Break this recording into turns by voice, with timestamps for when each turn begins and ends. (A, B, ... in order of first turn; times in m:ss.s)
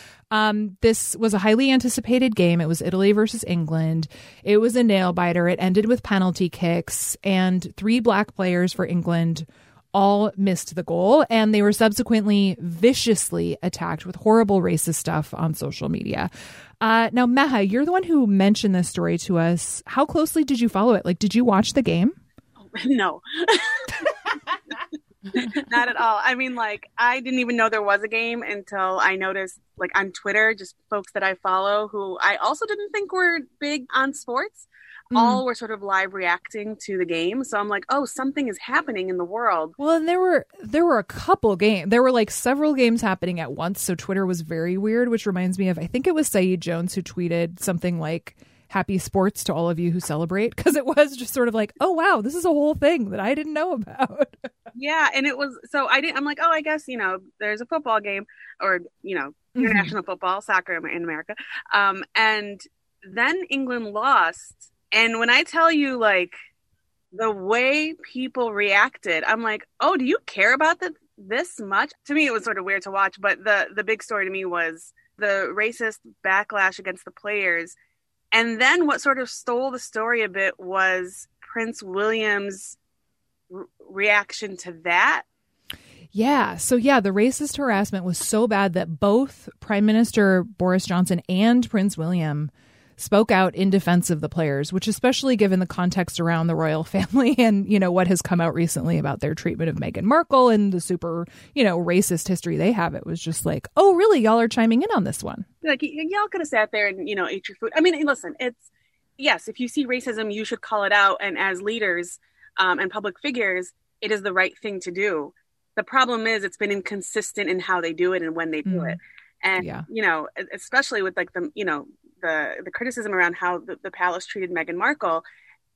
0:00.3-0:16.3 A
0:16.8-0:22.2 A
0:22.7-0:24.1 B
0:25.4-0:39.7 B
0:35.1-0:35.4 A
0:39.8-0:54.5 A
0:54.8-1:06.4 B
0:59.6-0:59.9 A
1:07.1-1:17.8 B
1:18.3-1:22.8 B
1:23.5-1:25.2 B
1:26.1-1:45.5 A
1:45.6-2:05.2 B
1:58.7-1:59.0 A
1:59.6-1:59.9 A